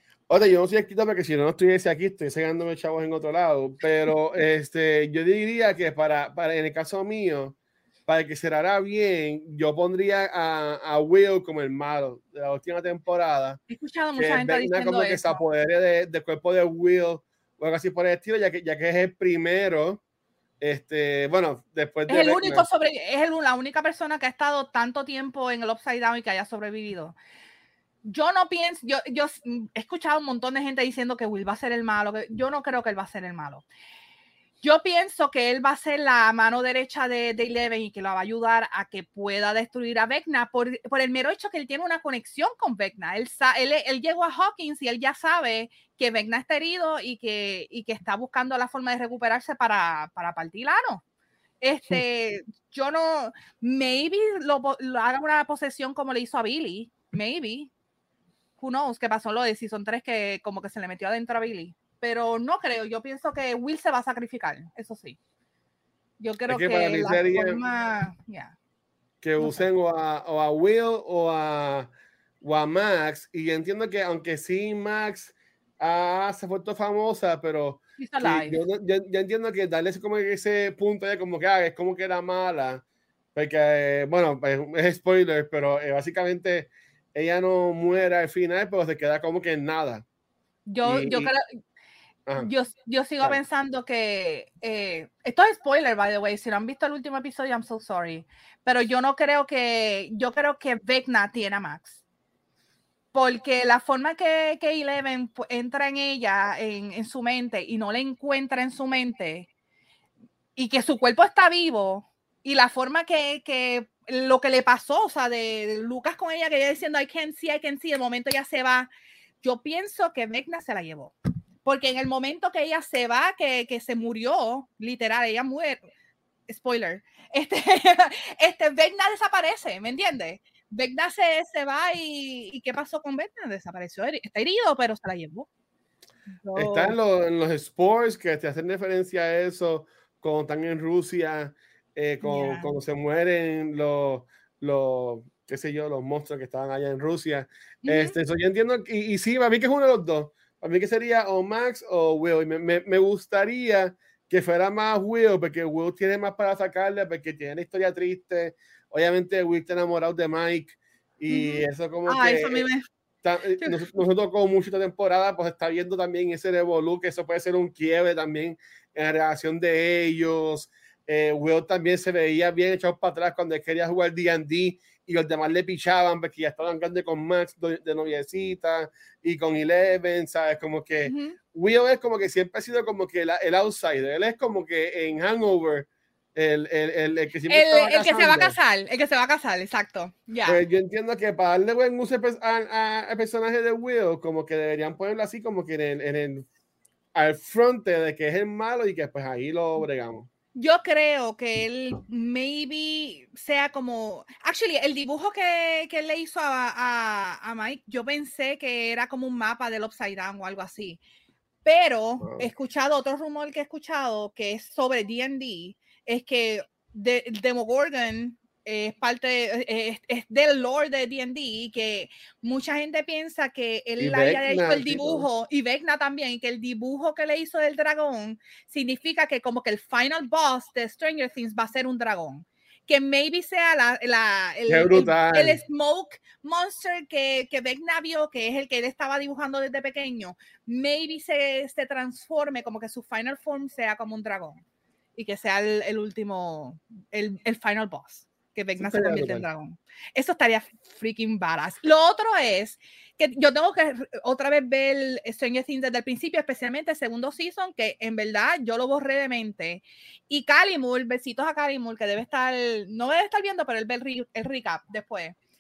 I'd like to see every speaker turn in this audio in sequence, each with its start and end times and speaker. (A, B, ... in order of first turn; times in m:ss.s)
0:00.3-0:07.6 A
0:08.1-0:13.6 A
0:13.7-0:15.4 B
0:14.2-0:20.0 A
0:20.6-0:22.6 A
0:22.1-0:27.2 B
0:28.0-0:33.6 B
0:34.6-0:51.0 B
0:51.6-0:57.7 B
0:58.6-1:05.2 B
1:06.2-1:08.5 B
1:06.5-1:07.6 A
1:09.2-1:11.9 A
1:09.4-1:09.7 B
1:12.4-1:22.8 A
1:18.0-1:18.6 B
1:23.3-1:30.0 A
1:30.7-1:31.4 B
1:30.8-1:31.3 A
1:32.4-1:42.0 B
1:43.1-1:49.5 B
1:50.6-1:58.9 B
1:59.4-2:01.1 B
2:01.6-2:05.8 B
2:06.5-2:15.5 B
2:16.3-2:17.0 B
2:16.5-2:42.6 A
2:22.2-2:22.8 B
2:27.8-2:28.2 B
2:41.3-2:42.8 B
2:43.2-3:08.6 A
2:43.6-2:43.9 B
3:01.0-3:01.4 B
3:07.5-3:10.6 B
3:10.4-3:16.5 A
3:17.1-3:20.3 A
3:20.6-3:31.0 B
3:31.6-4:04.6 B
3:32.2-3:32.5 A
3:44.0-3:45.3 A
3:54.7-3:55.6 A
4:05.2-4:25.3 B
4:08.8-4:09.5 A